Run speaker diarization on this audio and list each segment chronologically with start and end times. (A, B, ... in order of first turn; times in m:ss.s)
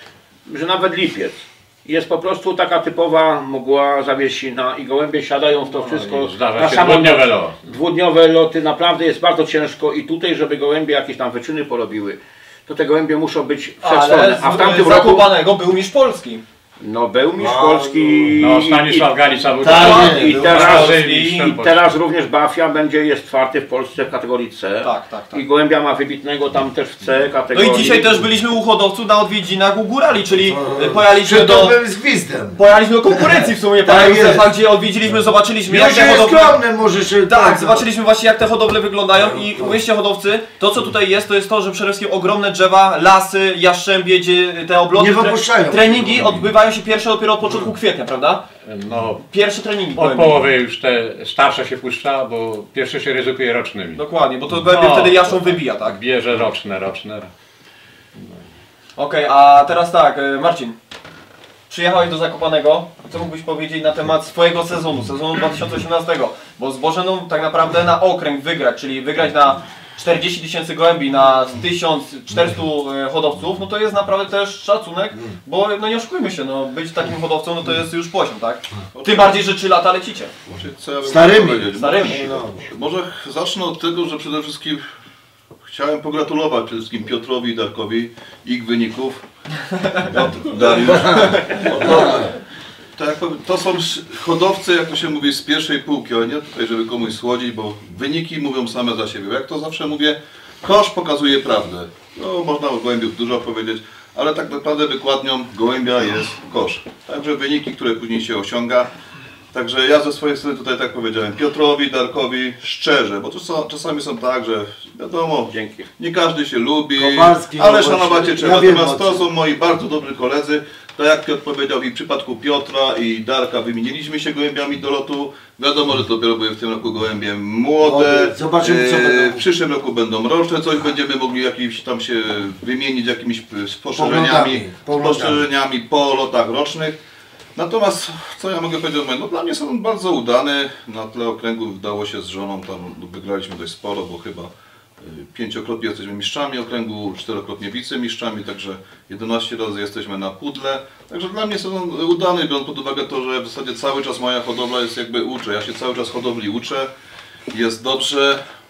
0:00.5-0:15.3 A
0:05.7-0:07.6 B
0:13.8-0:16.4 C
0:16.8-0:19.2 A
0:17.4-0:18.3 D
0:18.4-0:21.9 B
0:19.6-0:20.3 D
0:19.7-0:21.4 C
0:19.7-0:28.2 A
0:24.8-0:25.4 C
0:27.5-0:31.8 C
0:30.4-0:34.5 D
0:32.6-0:36.6 C
0:35.7-0:37.9 D
0:37.3-0:48.4 C
0:39.2-0:39.8 D
0:44.9-0:46.5 D
0:48.6-0:49.2 B
0:49.3-0:50.4 C
0:50.0-0:54.0 B
0:54.0-0:56.0 C
0:54.6-0:57.3 B
0:59.0-1:00.8 C
1:01.7-1:20.3 C
1:19.0-1:19.4 E
1:20.5-1:24.8 E
1:21.0-1:22.6 D
1:21.7-1:22.4 C
1:25.7-1:29.2 E
1:30.0-1:32.3 E
1:30.2-1:32.3 D
1:33.0-1:48.9 E
1:49.5-2:17.0 E
1:55.5-1:55.9 A
1:57.0-1:59.3 D
2:07.8-2:09.4 D
2:14.0-2:15.5 D
2:17.6-2:36.9 E
2:37.5-2:38.4 E